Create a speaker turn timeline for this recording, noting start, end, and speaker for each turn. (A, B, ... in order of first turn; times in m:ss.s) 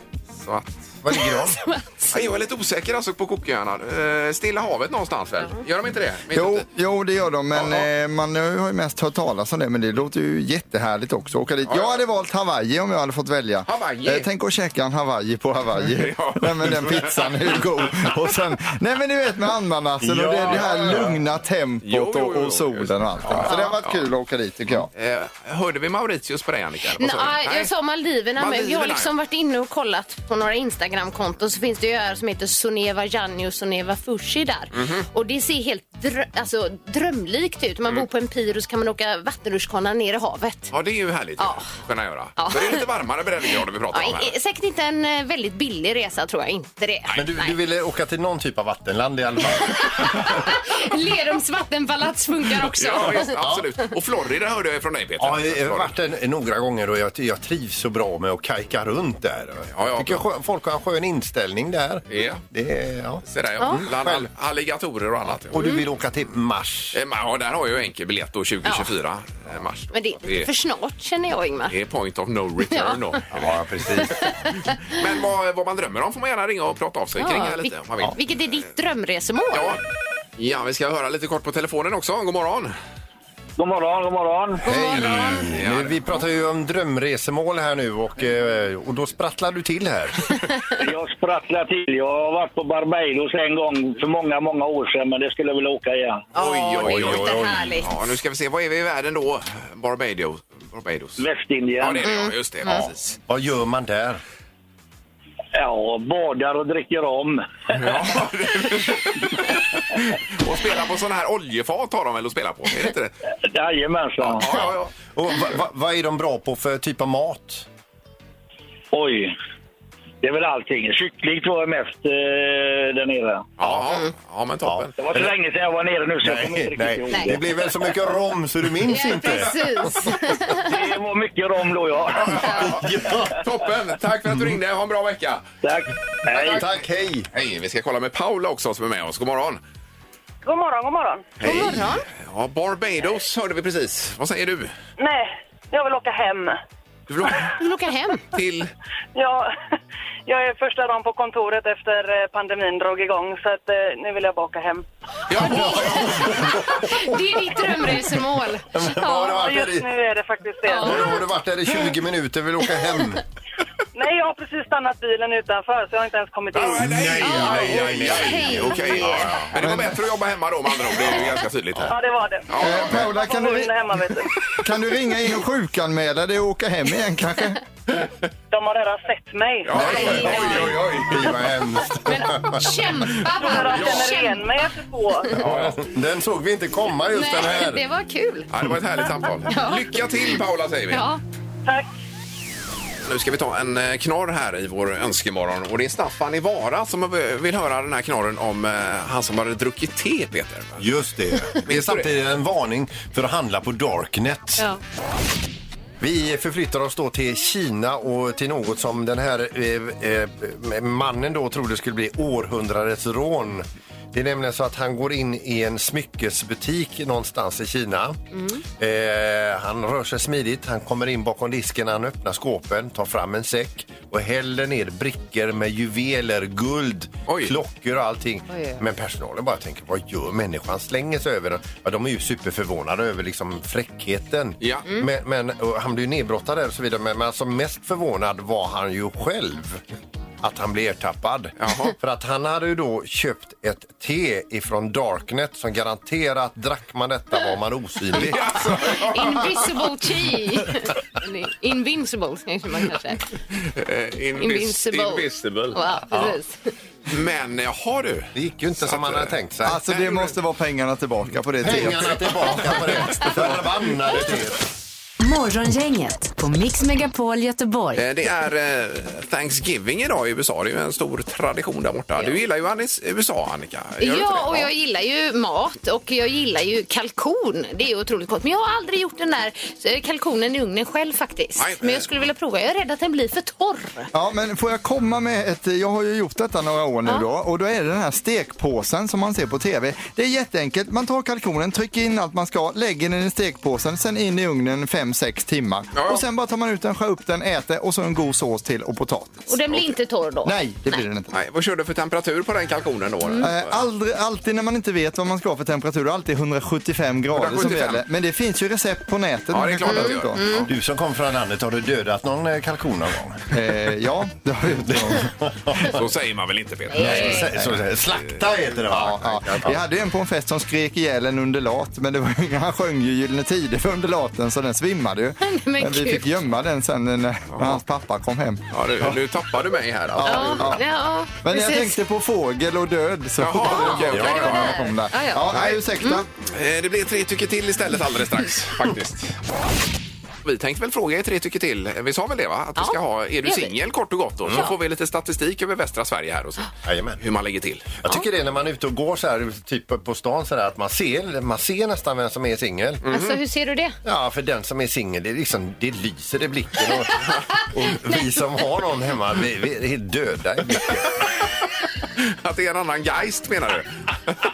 0:00.4-0:00.9 A
0:01.0-0:01.6 B
0:01.1-0:02.3 C
0:02.1-0:06.6 A
0:06.3-0:24.9 D
0:07.5-0:07.9 A
0:11.6-0:12.0 A
0:13.7-0:14.3 A
0:15.8-0:17.6 A
0:20.0-0:21.2 B
0:21.8-0:24.1 A
0:24.9-0:27.7 A
0:26.9-0:40.7 C
0:28.4-0:29.1 A
0:34.7-0:35.0 A
0:40.7-0:44.3 A
0:41.4-0:41.8 C
0:42.4-0:42.9 C
0:43.4-0:47.6 C
0:47.1-0:50.5 B
0:49.8-0:53.9 C
0:52.6-0:55.9 A
0:53.4-0:53.7 B
0:55.2-1:04.3 B
0:59.7-1:00.2 A
1:02.1-1:02.4 A
1:03.2-1:05.6 A
1:03.6-1:03.9 C
1:05.5-1:07.0 B
1:05.5-1:05.8 C
1:06.9-1:10.5 A
1:08.6-1:08.9 C
1:09.9-1:11.8 C
1:11.7-1:14.1 A
1:12.6-1:13.2 C
1:13.3-1:14.2 B
1:14.0-1:15.0 C
1:14.9-1:18.2 A
1:17.1-1:19.8 C
1:19.5-1:19.8 A
1:20.4-1:22.7 A
1:23.6-1:24.6 E
1:24.6-1:25.5 C
1:24.6-1:30.4 B
1:24.9-1:26.2 A
1:30.8-1:36.2 E
1:36.3-1:37.9 C
1:36.4-1:41.2 A
1:36.9-1:37.7 B
1:41.2-1:42.0 E
1:41.8-1:43.2 A
1:42.0-1:42.9 C
1:43.3-1:44.2 B
1:45.5-1:47.9 E
1:47.7-1:53.1 A
1:53.4-1:54.5 E
1:54.2-1:54.9 A
1:54.5-1:57.6 B
1:58.9-1:59.3 E
2:00.2-2:03.4 E
2:03.6-2:04.9 A
2:04.6-2:05.3 B
2:05.0-2:07.4 E
2:06.2-2:10.1 B
2:07.1-2:07.4 C
2:08.8-2:10.7 C
2:10.6-2:12.7 E
2:12.2-2:12.8 A
2:12.6-2:13.4 B
2:13.4-2:15.4 A
2:15.6-2:16.6 E
2:16.3-2:17.3 B
2:16.4-2:16.7 A
2:17.3-2:19.6 A
2:20.4-2:21.2 F
2:21.4-2:22.0 C
2:21.4-2:24.7 A
2:25.0-2:26.6 F
2:27.1-2:27.6 A
2:27.5-2:28.3 C
2:28.3-2:28.7 A
2:29.2-2:29.5 F
2:30.3-2:34.8 F
2:35.3-2:36.4 A
2:35.4-2:37.2 B
2:35.4-2:39.3 C
2:38.7-2:39.9 B
2:38.9-2:41.2 F
2:40.6-2:41.3 C
2:40.8-2:43.2 B
2:43.9-2:47.0 F
2:46.5-2:52.0 A
2:46.6-2:48.9 B
2:47.1-2:49.5 C
2:49.6-2:49.9 D
2:50.9-2:51.2 C
2:51.9-2:54.3 F
2:52.5-2:53.1 A
2:52.6-2:54.0 D
2:54.6-2:57.6 D
2:58.5-2:59.8 F
2:59.6-3:01.3 A
2:59.7-3:01.1 C
3:01.0-3:03.2 B
3:02.0-3:04.4 C
3:03.3-3:05.4 F
3:03.5-3:04.1 A
3:05.3-3:05.8 A
3:05.4-3:07.8 B
3:07.1-3:08.5 C
3:08.5-3:11.1 A
3:09.2-3:11.2 C
3:13.0-3:20.8 A
3:20.8-3:24.7 B
3:21.6-3:22.1 A
3:26.0-3:38.2 B
3:38.3-3:38.6 C
3:38.8-3:59.8 B
3:47.3-3:47.5 A
3:48.5-3:48.8 C
3:54.6-3:54.9 A
4:00.4-4:08.9 B
4:01.6-4:01.9 A
4:08.1-4:09.7 A
4:08.9-4:13.2 C
4:13.6-4:15.8 A
4:14.3-4:16.7 C
4:17.1-4:19.3 A
4:18.3-4:19.8 B
4:19.6-4:22.4 D
4:19.9-4:20.3 A
4:21.6-4:24.6 B
4:21.7-4:22.1 A
4:22.7-4:23.4 A
4:25.2-4:28.0 G
4:27.9-4:34.7 A
4:34.0-4:44.1 C
4:41.6-4:42.2 A
4:44.1-4:59.6 D
4:55.9-4:56.2 A
4:59.5-5:01.0 C
5:00.4-5:01.3 D
5:01.3-5:03.7 A
5:03.2-5:03.5 C
5:03.4-5:10.4 D
5:07.3-5:08.0 A
5:09.5-5:10.7 A
5:09.8-5:10.7 C
5:10.6-5:13.5 B
5:13.5-5:16.0 D
5:14.9-5:15.9 B
5:15.8-5:17.5 A
5:16.9-5:17.5 C
5:17.0-5:19.8 B
5:18.9-5:29.2 D
5:25.4-5:26.4 C
5:27.5-5:27.8 A
5:28.7-5:30.8 A
5:30.2-5:30.8 D
5:30.2-5:32.0 C
5:31.4-5:36.3 D
5:33.4-5:35.0 A
5:33.7-5:36.2 C
5:34.1-5:34.6 B
5:35.5-5:35.8 A
5:36.4-5:39.4 A
5:40.4-5:48.0 A
5:42.8-5:43.8 C
5:44.5-5:44.8 C
5:46.8-5:47.2 B
5:48.0-5:53.0 B
5:53.0-5:54.0 C
5:53.0-5:53.4 A
5:54.0-6:01.0 B
6:01.1-6:01.6 A
6:02.2-6:04.4 A